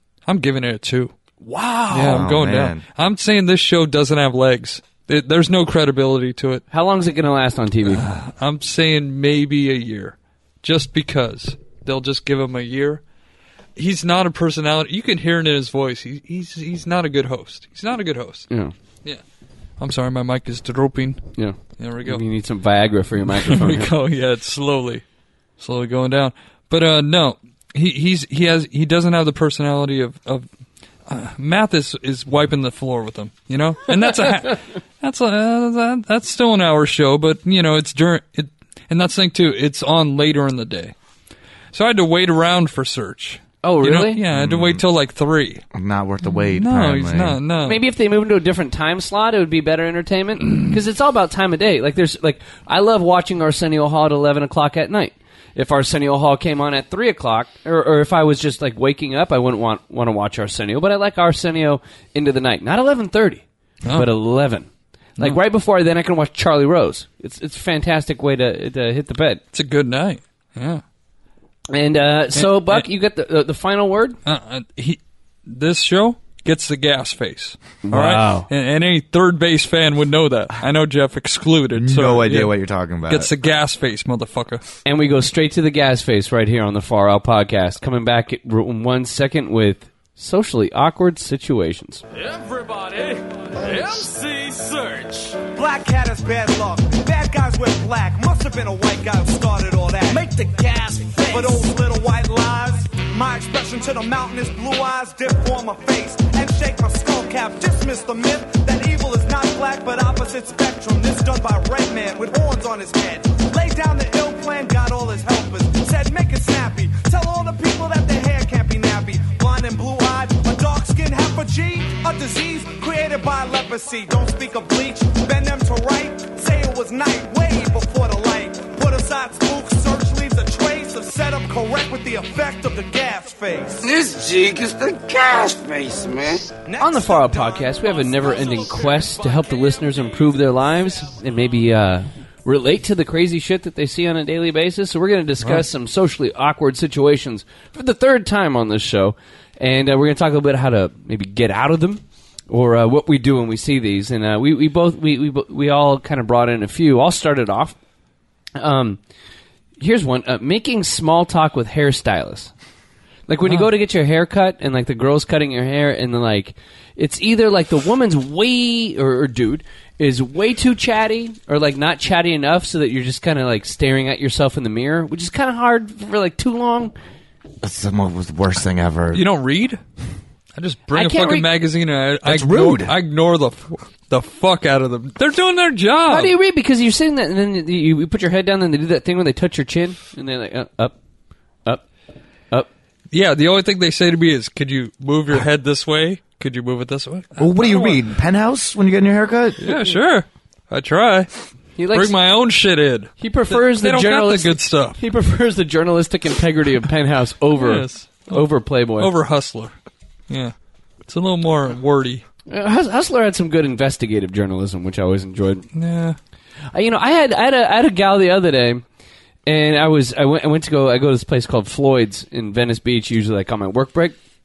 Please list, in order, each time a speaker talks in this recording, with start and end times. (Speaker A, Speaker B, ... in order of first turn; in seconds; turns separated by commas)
Speaker A: 0.3-1.1, Speaker B: 1.4-2.2, Speaker A: 1.9-6.6, Speaker C: 1.9-2.8, Speaker B: 6.7-8.0, Speaker A: 7.9-13.0, Speaker A: 13.8-18.5, Speaker A: 19.8-22.2, Speaker B: 21.4-23.9, Speaker A: 23.5-25.0, Speaker A: 25.6-30.5, Speaker A: 31.1-40.9, Speaker A: 41.7-45.6, Speaker B: 43.6-44.2, Speaker C: 44.3-44.8, Speaker C: 45.7-47.4, Speaker A: 46.4-47.8, Speaker B: 47.6-64.7, Speaker B: 65.2-69.4, Speaker A: 69.5-70.8, Speaker B: 71.7-74.2, Speaker A: 72.3-72.9, Speaker A: 74.3-82.5, Speaker B: 77.8-78.5, Speaker C: 81.8-83.3, Speaker A: 83.1-84.6, Speaker B: 84.8-92.0, Speaker A: 92.7-93.1, Speaker A: 93.6-95.0, Speaker D: 95.5-100.3, Speaker D: 101.2-133.9, Speaker E: 133.9-136.5, Speaker D: 136.7-137.4, Speaker B: 136.8-157.8, Speaker B: 158.6-159.0, Speaker B: 159.8-162.5, Speaker B: 163.3-176.9, Speaker C: 177.6-179.2, Speaker A: 179.1-179.8, Speaker A: 180.6-186.3, Speaker B: 180.9-181.5, Speaker C: 182.2-182.9, Speaker B: 186.1-190.9, Speaker A: 193.1-198.0, Speaker C: 197.4-199.6, Speaker A: 199.6-201.3, Speaker B: 201.8-202.1, Speaker A: 201.9-205.0, Speaker B: 203.2-209.1, Speaker A: 207.6-208.4, Speaker A: 209.0-209.7, Speaker A: 211.1-212.2, Speaker B: 212.5-215.7, Speaker A: 215.7-216.2, Speaker B: 216.7-218.8, Speaker B: 219.5-224.2